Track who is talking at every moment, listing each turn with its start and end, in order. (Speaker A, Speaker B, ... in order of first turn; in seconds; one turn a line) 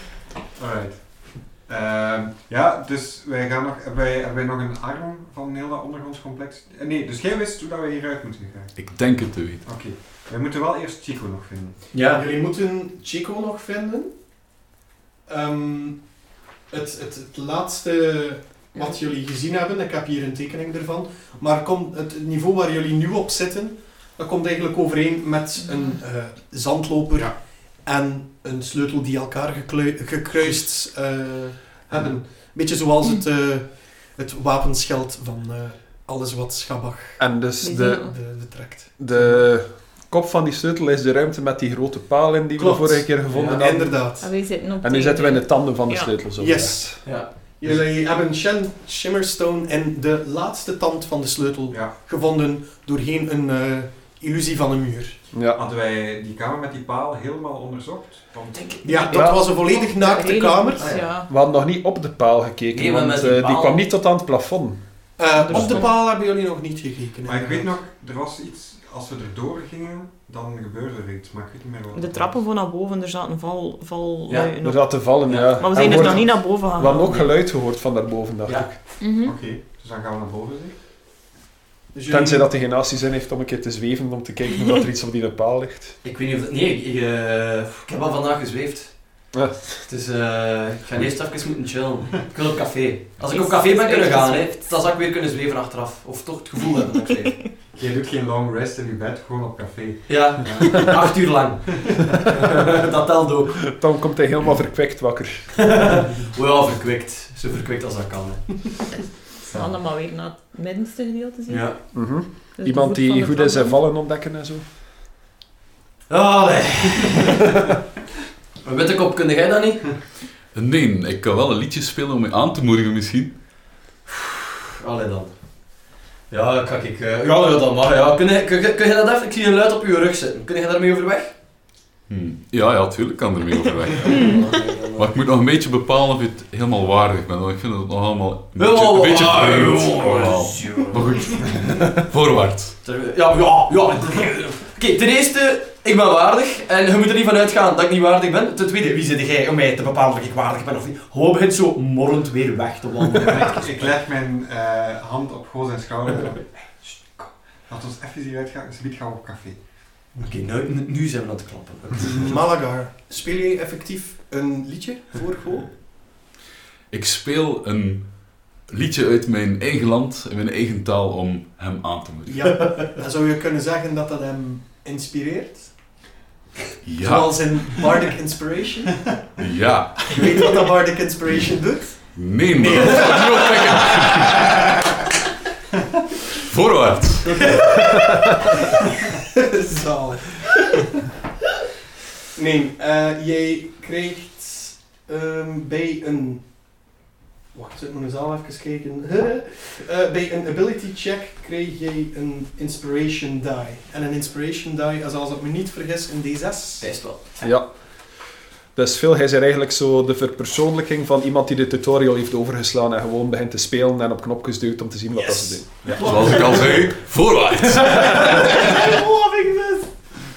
Speaker A: 0.6-11.9
Speaker B: 8.8-9.7
Speaker C: 11.9-12.2
Speaker D: 12.1-14.2
Speaker D: 15.3-39.5
Speaker E: 25.7-26.0
Speaker F: 37.2-47.0
Speaker E: 37.6-38.2
Speaker D: 42.5-44.3
Speaker C: 43.3-43.6
Speaker E: 44.2-46.4
Speaker D: 46.4-55.2
Speaker C: 47.0-47.3
Speaker F: 55.3-55.6
Speaker A: 55.5-58.8
Speaker C: 58.5-59.4
Speaker D: 58.8-61.0
Speaker F: 59.1-59.5
Speaker E: 59.5-61.3
Speaker C: 60.8-61.1
Speaker F: 61.2-65.9
Speaker C: 62.7-63.8
Speaker D: 65.2-67.7
Speaker E: 65.4-65.8
Speaker A: 67.3-72.4
Speaker E: 71.9-77.0
Speaker C: 74.3-74.6
Speaker F: 74.6-78.8
Speaker C: 75.1-76.2
Speaker C: 76.9-77.3
Speaker C: 78.5-78.8
Speaker E: 79.0-79.4
Speaker A: 79.2-80.8
Speaker D: 81.9-82.5
Speaker F: 82.1-86.0
Speaker C: 86.0-89.3
Speaker F: 89.3-89.8
Speaker C: 89.9-97.5
Speaker E: 93.2-94.9
Speaker A: 97.7-102.3
Speaker C: 100.1-103.8
Speaker F: 103.6-105.8
Speaker C: 105.6-109.0
Speaker E: 109.5-113.8
Speaker A: 109.5-109.8
Speaker C: 111.5-112.3
Speaker F: 111.9-114.6
Speaker C: 116.1-117.5
Speaker C: 118.6-119.8
Speaker B: 120.5-123.4
Speaker C: 124.1-131.3
Speaker B: 132.1-142.8
Speaker C: 134.0-135.1
Speaker C: 138.6-141.5
Speaker C: 142.8-154.0
Speaker A: 153.2-160.1
Speaker C: 160.2-162.3
Speaker D: 162.1-165.7
Speaker B: 166.9-172.7
Speaker D: 172.3-175.9
Speaker B: 176.8-177.9
Speaker D: 177.0-179.1
Speaker B: 179.4-180.3
Speaker D: 180.1-184.4
Speaker B: 182.2-184.7
Speaker B: 186.4-187.6
Speaker D: 187.2-188.6
Speaker D: 189.1-190.7
Speaker D: 192.3-196.5
Speaker D: 197.5-206.9
Speaker C: 206.8-207.5
Speaker F: 207.4-207.7
Speaker F: 208.8-216.3
Speaker B: 215.8-218.4
Speaker C: 215.9-216.8
Speaker D: 216.0-216.6
Speaker C: 217.7-220.0